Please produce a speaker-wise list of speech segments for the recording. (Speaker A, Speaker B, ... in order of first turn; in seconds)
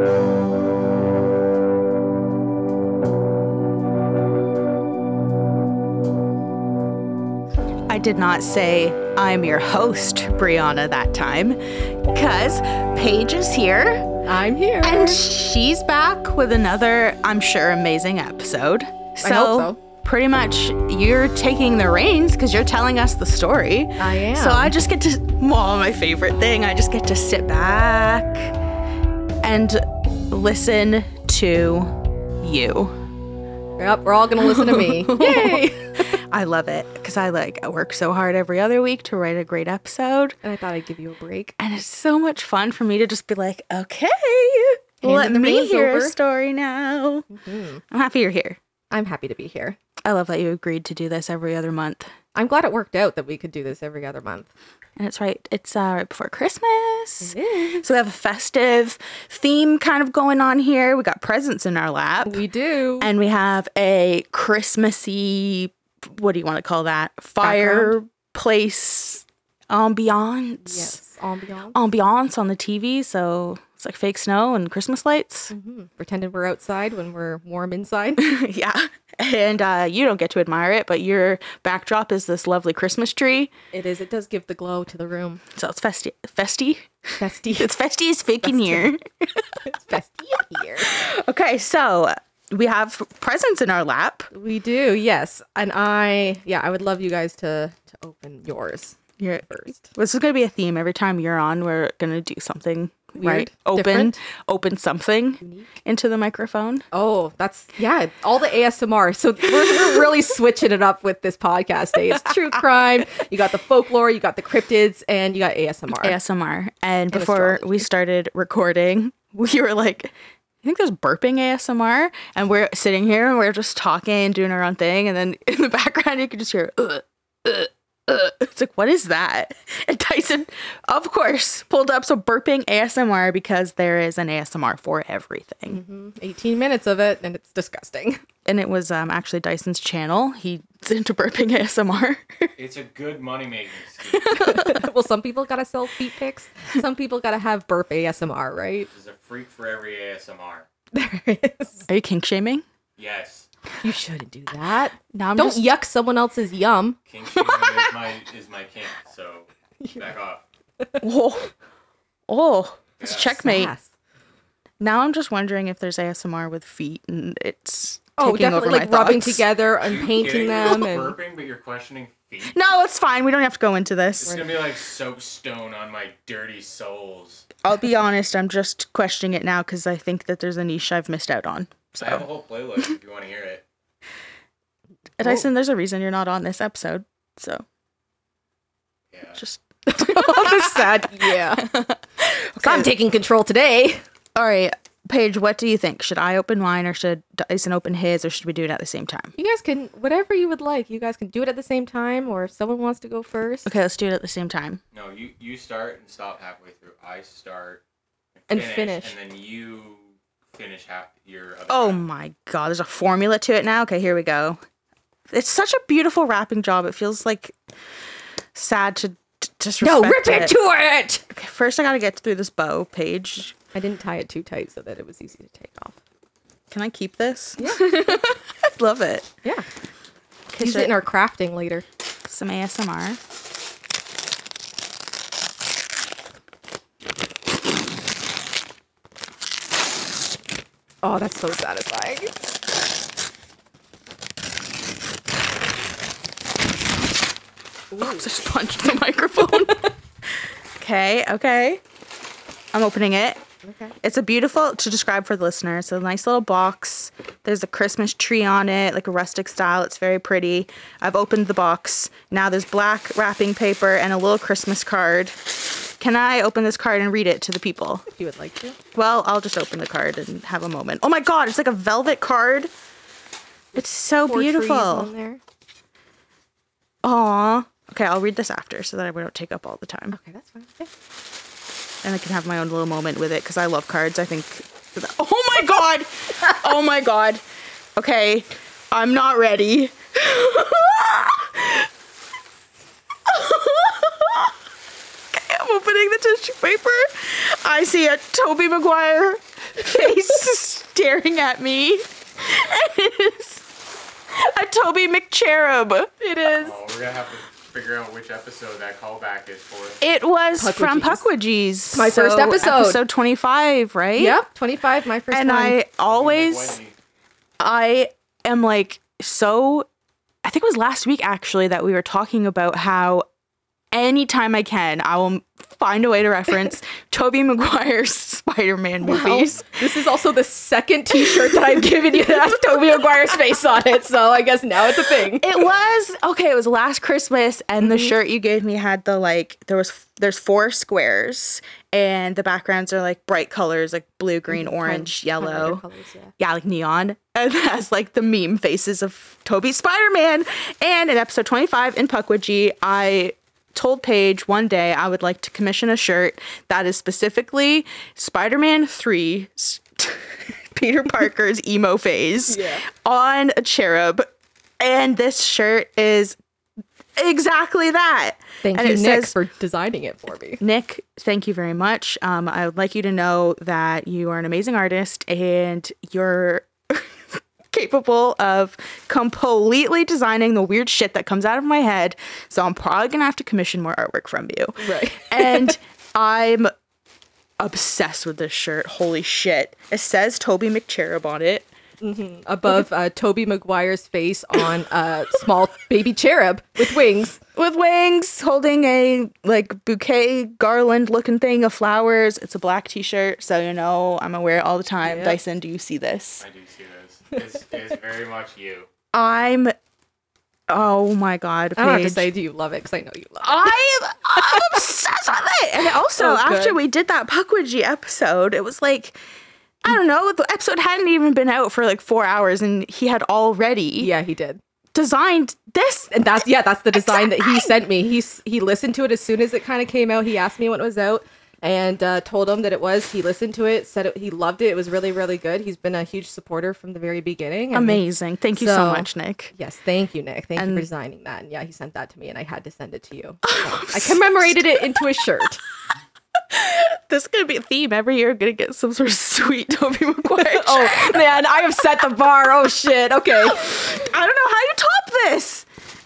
Speaker A: 7.9-11.6, 12.1-14.1, 14.8-28.6, 29.4-33.0, 34.4-40.4, 41.6-47.2, 47.9-48.6, 50.0-52.1, 55.0-62.4, 63.0-71.0, 71.7-75.5, 78.2-83.5, 85.5-86.9, 87.5-89.4, 90.8-94.3, 99.2-106.8, 116.0-135.8, 138.4-142.5, 144.1-144.8, 151.9-152.6, 155.1-155.6, 157.3-157.9, 161.0-161.5, 162.3-163.7, 164.8-169.4, 172.5-174.3, 177.6-182.2, 185.2-187.6, 189.4-192.9, 194.3-199.3, 203.6-204.8, 211.7-214.6, 215.3-217.6, 218.5-220.6, 221.3-223.5, 226.7-229.3, 230.5-230.9, 232.3-233.2, 248.0-249.9, 250.8-251.8, 252.7-253.4, 254.0-265.4, 266.0-268.0, 268.9-272.7, 273.7-275.1, 277.0-280.2, 282.0-287.4, 287.9-291.9, 293.2-294.5, 295.3-303.6, 304.3-306.1, 310.0-314.4, 315.3-316.8, 317.6-319.9, 320.4-323.2, 323.9-329.6, 331.1-331.8, 332.5-333.0, 335.3-345.8, 346.4-366.4, 367.1-369.3, 370.6-386.7, 387.6-391.7, 397.5-406.4, 409.1-409.7, 410.7-412.3, 413.4-419.1, 419.8-424.1, 424.9-426.1, 426.9-427.7, 437.7-439.5, 440.6-440.9, 443.4-445.0, 446.5-451.2, 453.4-455.6
Speaker B: 14.2-15.2, 19.2-19.8, 24.0-24.7, 33.8-36.2, 40.4-41.5, 45.0-46.1, 47.3-47.8, 48.9-49.8, 52.3-54.5, 57.2-58.0, 62.2-63.1, 67.4-68.0, 70.6-71.8, 75.5-78.2, 83.7-85.4, 87.2-87.7, 88.4-88.9, 89.6-90.9, 94.3-99.9, 103.2-104.2, 105.4-105.7, 106.9-116.2, 117.1-117.9, 135.7-138.2, 144.3-148.9, 150.9-151.9, 153.8-157.0, 163.4-163.9, 168.2-171.2, 189.9-191.7, 192.6-194.0, 199.4-203.7, 208.5-209.1, 219.8-221.2, 223.7-226.0, 227.6-228.0, 230.6-231.8, 241.0-242.3, 247.9-248.3, 253.6-253.9, 268.1-268.8, 274.2-275.4, 280.1-280.9, 306.2-306.7, 310.6-311.2, 311.9-313.0, 314.1-315.8, 329.0-335.7, 344.5-346.3, 362.5-362.8, 368.6-370.6, 384.8-385.8, 392.0-397.4, 405.0-405.4, 411.8-413.8, 414.4-414.7, 415.8-416.8, 424.0-424.6, 426.1-438.0, 438.5-445.6, 450.3-454.1
Speaker C: 142.6-144.4, 148.9-150.7, 153.0-153.5, 157.1-160.4, 163.0-163.3, 169.8-172.6, 174.2-177.5, 182.0-183.6, 189.1-189.4, 204.9-207.8, 208.4-212.0, 306.6-310.0, 316.1-316.9, 406.4-408.9